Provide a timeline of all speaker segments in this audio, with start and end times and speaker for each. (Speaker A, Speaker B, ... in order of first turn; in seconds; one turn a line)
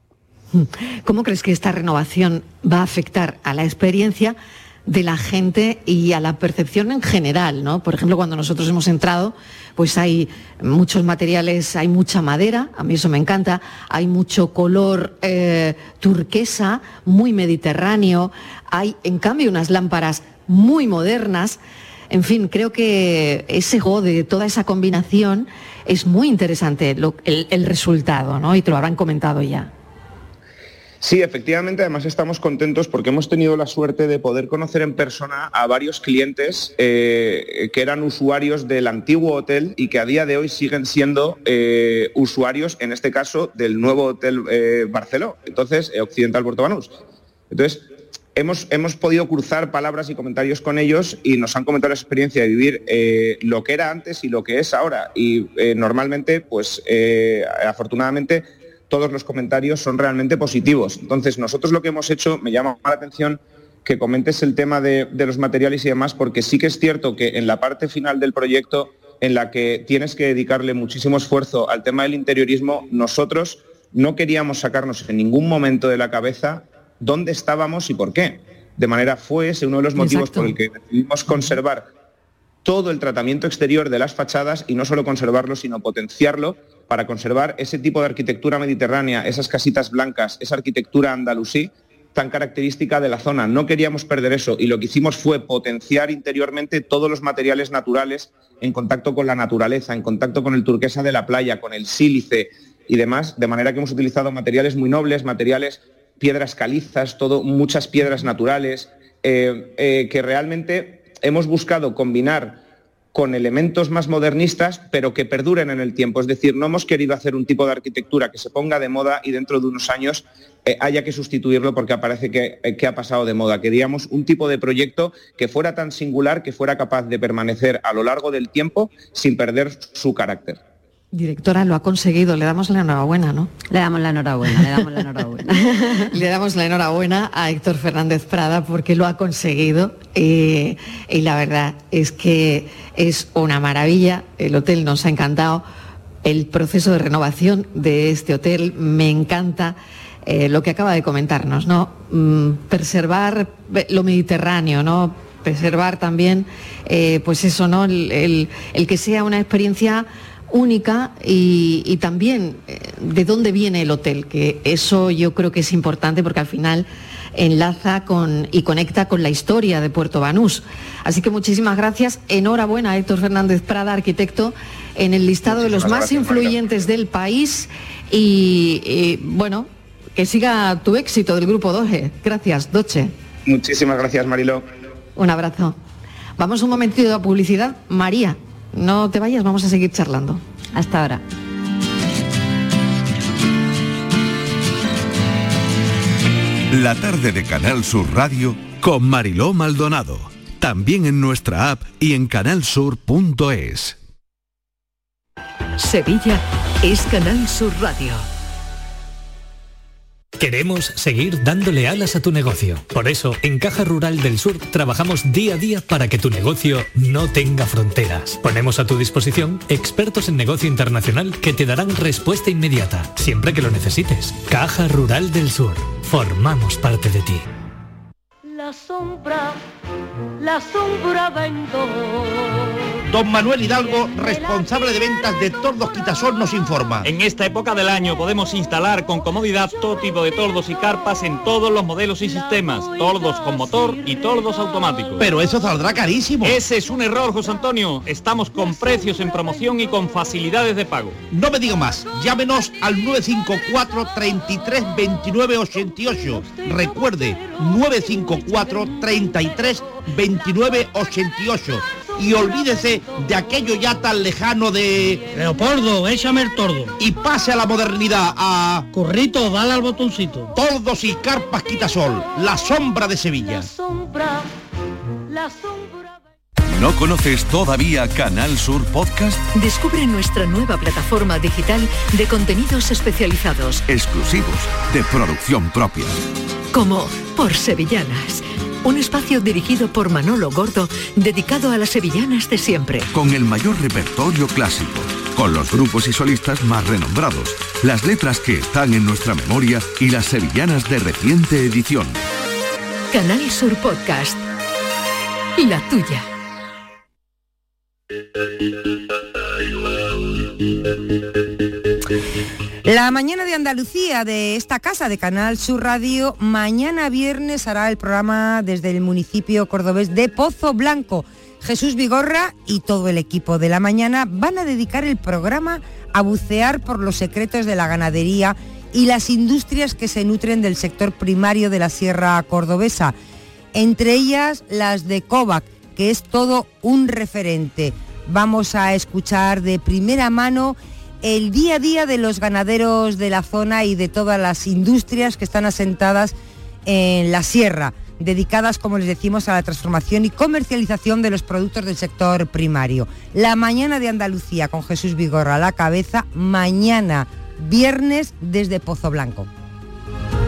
Speaker A: 0.5-21.6
Speaker A: 22.1-29.7
Speaker B: 31.0-47.0
Speaker B: 47.5-81.9
Speaker A: 80.0-80.5
Speaker B: 82.6-112.6
Speaker B: 113.1-130.6
Speaker A: 131.1-133.5
Speaker C: 133.7-136.1
Speaker A: 135.8-145.6
Speaker A: 146.2-183.1
Speaker B: 175.4-176.6
Speaker B: 183.4-184.6
Speaker A: 185.2-185.8
Speaker A: 186.4-190.4
Speaker C: 190.7-191.2
Speaker D: 196.7-204.0
Speaker E: 205.8-208.2
Speaker F: 210.4-227.4
Speaker G: 228.5-229.6
Speaker G: 230.4-232.1
Speaker H: 233.1-237.1
Speaker I: 237.0-245.3
Speaker H: 245.2-246.6
Speaker I: 246.4-251.2
Speaker H: 251.3-265.2
Speaker J: 265.3-266.9
Speaker H: 267.0-268.9
Speaker J: 268.9-270.5
Speaker H: 270.5-273.7
Speaker G: 273.8-274.5
Speaker G: 275.3-276.0
Speaker D: 276.7-279.4
Speaker E: 279.5-283.8
Speaker D: 283.9-286.2
Speaker E: 286.7-293.1
Speaker D: 293.1-302.2
Speaker E: 303.1-304.4
Speaker E: 305.6-306.2
Speaker K: 312.8-333.1
Speaker K: 333.7-346.3
Speaker K: 346.9-359.5